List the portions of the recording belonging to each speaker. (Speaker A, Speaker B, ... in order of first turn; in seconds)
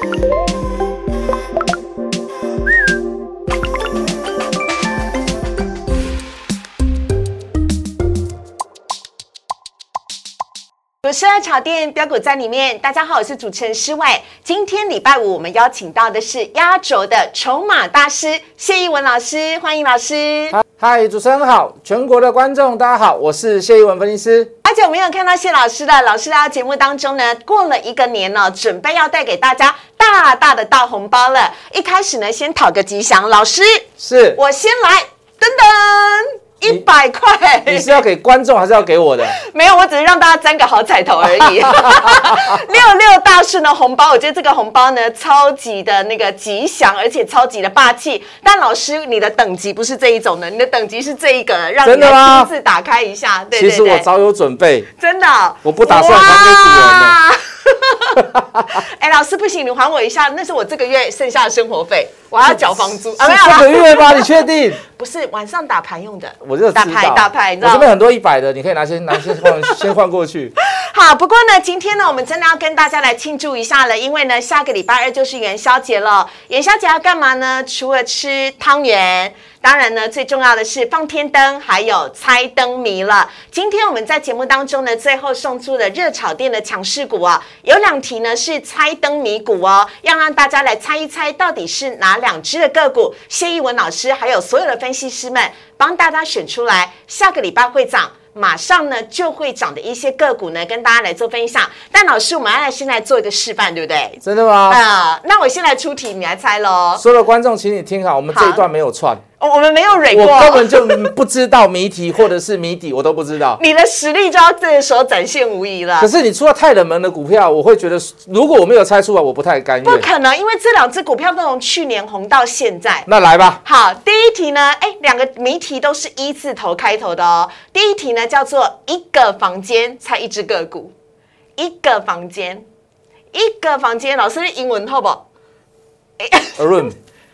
Speaker A: 11.0-20.6, 24.6-33.8, 34.4-38.0, 39.3-54.0, 55.0-64.3, 64.8-67.9, 69.2-69.9, 70.6-107.0, 108.3-108.6, 109.4-111.1, 113.6-116.1, 119.8-123.1, 123.6-130.9, 131.6-132.6, 133.3-135.2, 136.2-136.9
Speaker B: 20.5-24.5, 34.0-34.4, 37.7-39.4, 41.4-42.6, 51.8-52.5, 53.5-54.9, 55.6-57.2, 58.1-58.8, 63.1-64.8, 66.4-70.5, 104.2-104.8, 107.0-109.2, 110.1-113.6, 116.0-120.1, 123.1-123.6, 136.6-136.9